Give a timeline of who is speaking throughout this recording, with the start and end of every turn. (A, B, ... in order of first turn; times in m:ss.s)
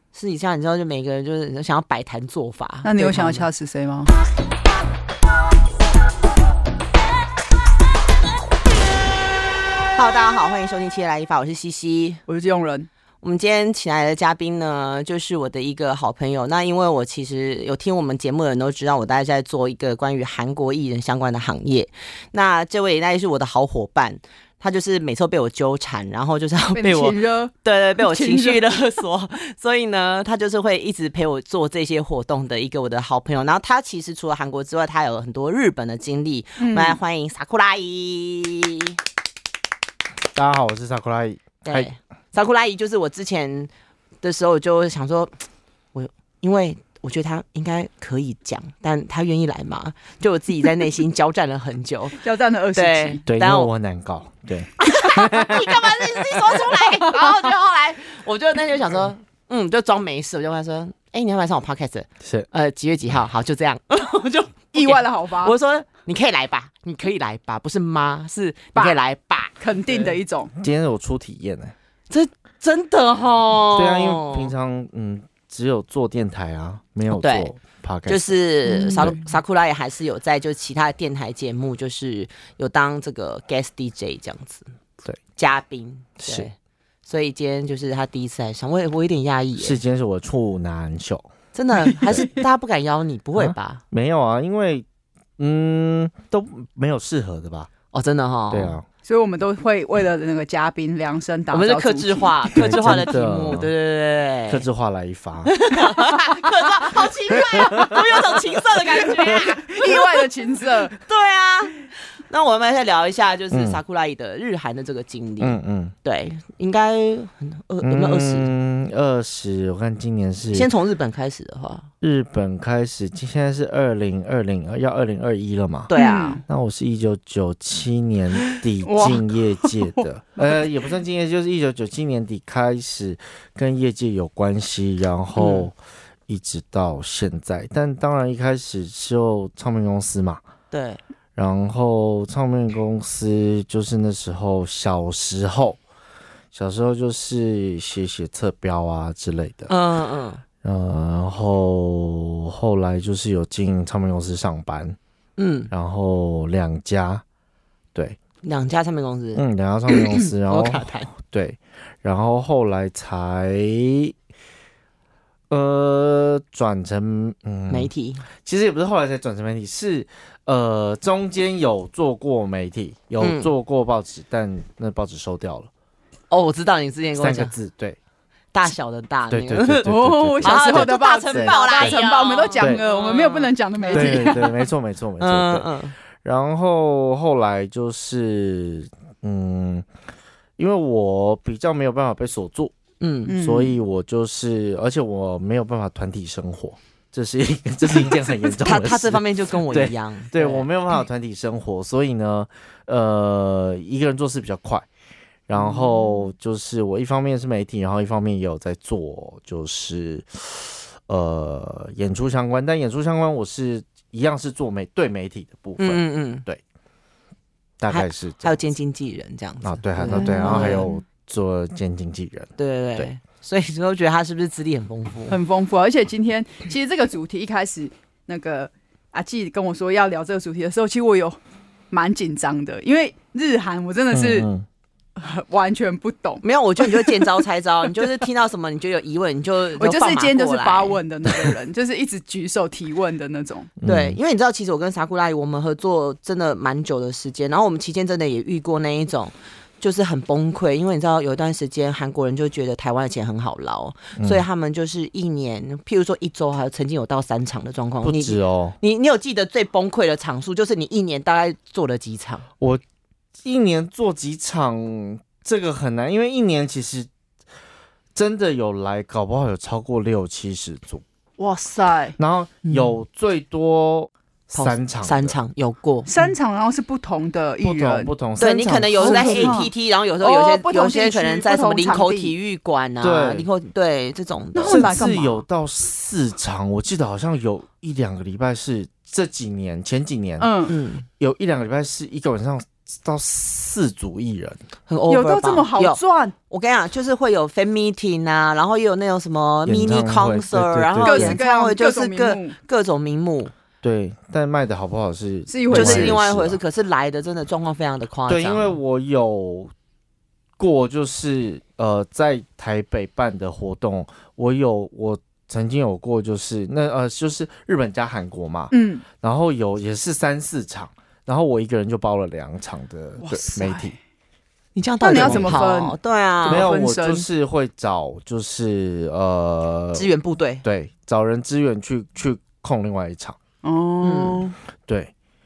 0:00.1-0:03.5 A
0:02.8-0:04.1 B
0:09.9-0:12.2 A
0:12.3-0:12.9 B
0:13.2-0:39.0 A
0:26.7-0:28.8 B
0:36.6-0:37.0 B
0:40.3-0:41.9 C
0:41.6-0:43.7 A
0:44.2-0:45.3 A
0:45.9-0:52.2 A
0:52.2-0:53.2 B
0:52.7-0:53.7 A
0:53.3-0:56.8 C
0:54.8-1:10.2 A
1:02.2-1:02.5 C
1:04.7-1:05.5 B
1:09.6-1:10.5 B
1:10.6-1:11.7 C
1:12.1-1:14.5 A
1:13.7-1:18.3 C
1:17.1-1:17.5 A
1:18.1-1:24.7 A
1:18.6-1:19.2 B
1:25.4-1:26.5 A
1:26.2-1:26.5 C
1:27.1-1:29.8 A
1:29.6-1:31.3 C
1:31.5-1:33.8 A
1:31.9-1:32.3 C
1:33.4-1:34.8 C
1:35.4-1:37.7 C
1:37.9-1:38.8 A
1:38.5-1:38.8 C
1:39.0-1:43.0 B
1:41.5-1:44.6 A
1:42.5-1:43.7 C
1:44.5-1:45.5 C
1:45.4-1:58.5 A
1:47.3-1:48.1 C
1:49.2-1:51.0 B
1:53.5-1:53.8 C
1:55.4-1:55.9 C
1:57.8-2:00.7 C
2:00.5-2:01.9 A
2:02.0-2:05.9 C
2:05.9-2:06.4 A
2:05.9-2:06.4 B
2:06.5-2:15.7 C
2:08.8-2:10.6 B
2:15.3-2:15.7 A
2:16.3-2:20.4 C
2:20.7-2:21.0 A
2:21.4-2:25.8 C
2:26.5-2:29.7 C
2:29.7-2:30.4 A
2:30.6-2:35.0 C
2:35.4-2:35.7 A
2:35.7-2:37.2 C
2:38.4-2:41.1 A
2:39.3-2:44.1 C
2:45.5-2:55.7 C
2:47.7-2:48.2 A
2:53.2-2:53.5 A
2:56.3-2:57.5 A
2:57.2-2:58.0 C
2:58.5-3:04.4 A
2:59.3-3:02.0 C
2:59.8-3:04.6 B
3:03.9-3:05.7 C
3:05.2-3:05.9 A
3:06.2-3:09.9 C
3:10.6-3:12.7 C
3:13.0-3:13.3 A
3:13.3-3:13.8 B
3:13.4-3:24.9 C
3:18.0-3:20.7 A
3:25.5-3:36.6 C
3:25.6-3:25.8 A
3:35.8-3:36.4 A
3:37.8-3:38.6 C
3:37.9-3:40.9 A
3:39.6-3:43.1 C
3:40.1-3:41.0 B
3:42.6-3:45.4 A
3:45.3-3:51.4 B
3:51.9-3:54.5 B
3:54.1-3:54.6 C
3:55.2-3:57.4 B
3:56.4-4:01.0 A
3:57.9-3:58.2 B
3:59.8-4:03.7 B
4:03.8-4:04.2 C
4:03.8-4:22.4 A
4:14.2-4:14.4 C
4:18.0-4:18.8 C
4:23.4-4:27.1 C
4:28.1-4:31.0 C
4:31.4-4:32.2 B
4:32.2-4:35.4 C
4:32.6-4:33.0 A
4:34.5-4:36.1 A
4:36.1-4:38.1 B
4:37.6-4:39.6 C
4:38.4-4:45.0 A
4:39.0-4:42.3 B
4:43.0-4:43.5 C
4:44.5-4:45.4 B
4:44.6-4:50.5 C
4:50.4-4:50.7 B
4:50.7-4:51.0 A
4:51.2-4:54.6 C
4:54.9-5:03.5 A
4:55.1-4:56.3 B
4:59.6-5:01.4 C
5:01.0-5:02.6 B
5:03.8-5:06.6 C
5:05.5-5:06.2 B
5:05.7-5:08.8 A
5:08.3-5:09.7 C
5:10.6-5:23.9 C
5:18.7-5:19.0 B
5:23.2-5:24.0 B
5:24.7-5:26.7 A
5:25.0-5:27.3 B
5:25.1-5:25.6 C
5:26.4-5:30.1 C
5:29.9-5:30.6 A
5:30.6-5:33.4 C
5:33.6-5:34.5 B
5:34.0-5:34.5 A
5:34.9-5:35.1 C